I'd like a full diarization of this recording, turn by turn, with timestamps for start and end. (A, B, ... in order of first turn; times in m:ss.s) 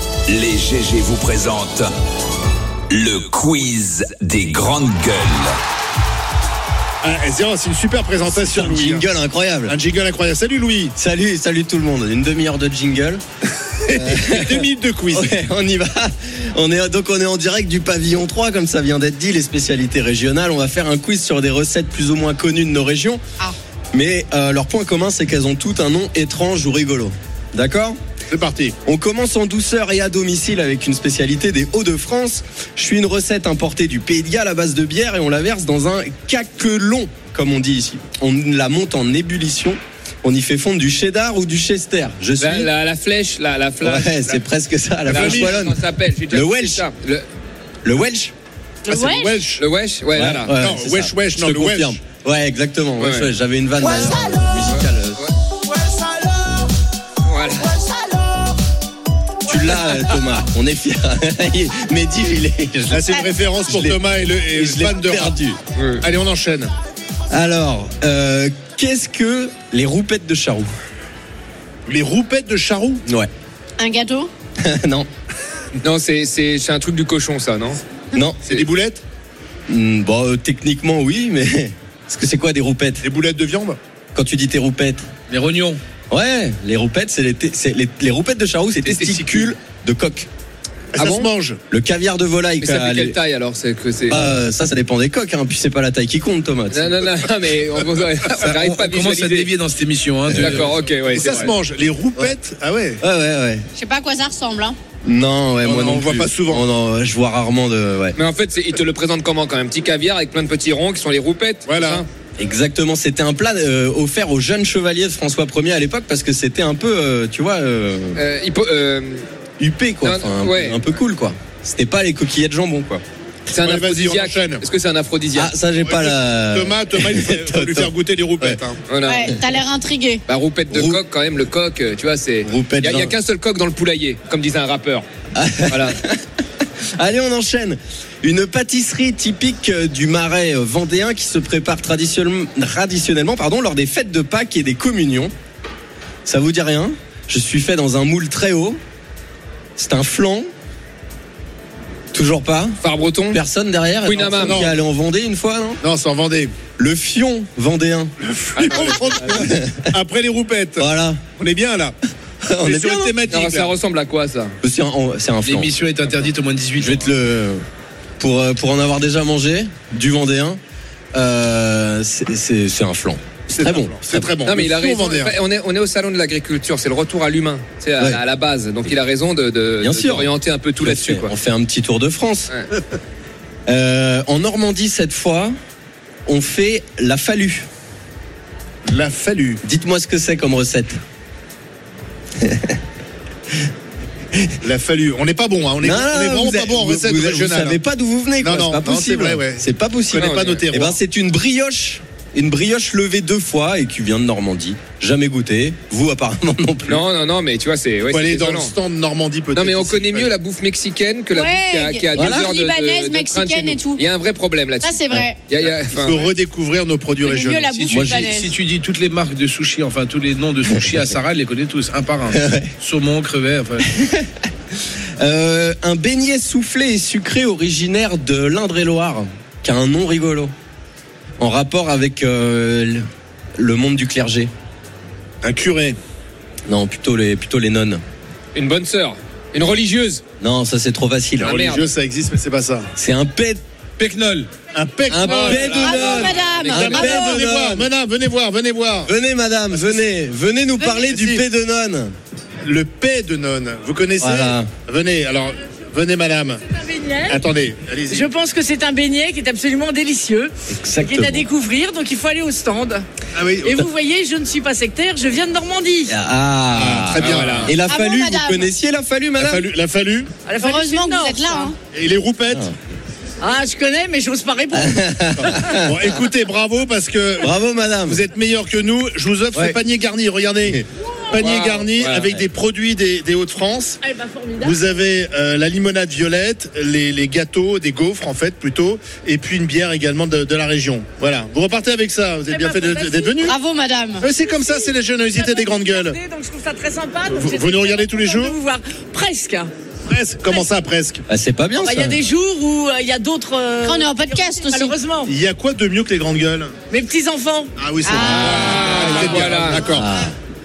0:00.3-0:01.9 A
0:02.9-0:05.6 A
0:07.0-0:09.0 B
0:08.2-0:09.8 C
0:09.7-0:10.9 B
0:11.0-0:13.2 C
0:13.8-0:15.3 B
0:13.9-0:23.2 C
0:23.9-0:28.0 C
0:28.3-0:28.8 B
0:28.8-0:42.7 C
0:42.4-0:44.4 D
0:43.8-0:46.8 C
0:45.0-0:47.2 D
0:45.1-0:45.6 B
0:47.8-0:48.3 C
0:48.8-0:49.4 E
0:48.9-0:49.6 B
0:49.6-0:50.5 D
0:50.1-0:55.2 C
0:50.6-0:52.0 B
0:53.0-0:53.3 D
0:54.7-0:55.3 D
0:57.2-0:57.8 D
0:59.4-1:05.6 C
1:02.9-1:05.3 B
1:05.7-1:06.0 D
1:06.0-1:06.7 B
1:07.3-1:10.7 C
1:11.8-1:13.0 B
1:13.8-1:14.3 E
1:14.6-1:15.1 C
1:15.8-1:17.8 D
1:18.1-1:18.4 C
1:18.4-1:19.0 B
1:19.7-1:23.0 C
1:23.0-1:23.8 B
1:24.1-1:25.0 C
1:25.3-1:25.8 F
1:26.1-1:30.3 C
1:28.8-1:29.5 D
1:30.9-1:31.6 B
1:31.0-1:31.3 D
1:31.7-1:33.2 C
1:32.6-1:34.2 D
1:34.1-1:37.0 C
1:36.7-1:39.5 D
1:38.4-1:40.8 F
1:40.3-1:41.5 D
1:40.3-1:40.6 C
1:41.0-1:43.0 B
1:43.0-1:43.6 C
1:43.7-1:44.8 E
1:45.0-1:48.2 C
1:45.6-1:46.6 B
1:48.1-1:52.1 D
1:51.6-1:52.0 B
1:52.4-1:58.2 C
1:58.2-1:59.2 D
1:59.6-2:03.0 C
2:00.0-2:00.8 D
2:03.5-2:05.5 D
2:03.6-2:04.6 B
2:05.3-2:08.6 C
2:05.8-2:08.8 B
2:08.9-2:09.3 D
2:09.0-2:10.2 E
2:10.3-2:15.0 D
2:10.7-2:11.0 C
2:12.4-2:13.1 C
2:15.3-2:25.3 C
2:15.7-2:16.0 D
2:26.2-2:28.8 C
2:29.8-2:30.5 C
2:32.1-2:32.8 C
2:32.8-2:33.4 D
2:33.3-2:35.8 C
2:34.0-2:34.7 D
2:34.4-2:34.7 B
2:35.8-2:36.5 B
2:36.8-2:39.9 C
2:38.2-2:42.0 B
2:38.6-2:38.9 D
2:40.8-2:41.2 C
2:42.4-2:43.1 C
2:42.6-2:43.7 B
2:43.3-2:44.5 D
2:44.6-2:45.7 C
2:45.4-2:47.1 F
2:46.8-2:47.6 C
2:48.2-2:50.6 C
2:51.1-2:54.3 C
2:53.5-2:55.3 B
2:54.4-3:01.3 D
2:59.8-3:02.5 C
3:03.7-3:05.5 C
3:06.3-3:07.6 C
3:08.8-3:09.6 B
3:09.6-3:11.0 C
3:12.4-3:12.8 C
3:14.6-3:17.8 B
3:15.8-3:27.0 C
3:18.4-3:21.0 B
3:20.1-3:20.6 D
3:26.8-3:28.7 D
3:28.0-3:30.3 B
3:29.5-3:36.3 D
3:31.3-3:34.0 E
3:32.1-3:32.5 C
3:34.8-3:35.4 E
3:35.9-3:37.8 B
3:37.2-3:38.5 E
3:37.7-3:44.0 F
3:37.9-3:38.3 C
3:40.6-3:41.1 C
3:42.3-3:42.7 C
3:44.0-3:44.3 C
3:45.2-3:50.5 C
3:51.4-3:53.0 C
3:53.6-3:54.5 C
3:55.4-3:56.0 B
3:56.7-3:58.0 C
3:58.5-4:00.2 D
4:00.4-4:01.6 C
4:01.4-4:02.9 B
4:01.4-4:01.8 D
4:02.9-4:03.6 C
4:04.0-4:04.5 F
4:04.7-4:09.1 B
4:05.1-4:07.9 C
4:05.2-4:07.1 D
4:05.7-4:07.5 E
4:09.0-4:12.1 C
4:09.7-4:10.0 B
4:10.8-4:11.1 E
4:11.0-4:11.4 B
4:12.6-4:16.6 B
4:14.2-4:14.7 C
4:16.8-4:17.4 G
4:17.3-4:18.3 B
4:18.1-4:23.0 G
4:20.7-4:21.5 C
4:23.3-4:23.8 B
4:23.6-4:26.1 G
4:26.1-4:29.6 C
4:26.7-4:27.7 B
4:27.2-4:27.7 D
4:27.7-4:28.7 E
4:29.4-4:30.3 B
4:30.4-4:31.7 G
4:30.6-4:31.8 E
4:31.9-4:32.6 B
4:33.4-4:35.0 G
4:34.7-4:36.2 C
4:35.4-4:37.5 B
4:37.4-4:38.2 C
4:38.1-4:44.0 B
4:39.5-4:39.8 C
4:41.3-4:42.4 D
4:44.0-4:44.9 G
4:44.6-4:53.5 B
4:52.5-4:53.5 G
4:53.4-4:54.3 E
4:54.2-4:56.2 B
4:54.3-4:59.7 G
4:57.3-4:58.6 B
5:00.1-5:01.2 B
5:01.3-5:02.2 C
5:01.8-5:05.3 G
5:03.8-5:04.9 E
5:05.2-5:06.7 B
5:06.9-5:07.7 G
5:07.8-5:10.1 B
5:08.0-5:09.8 E
5:08.3-5:09.8 D
5:09.6-5:10.3 C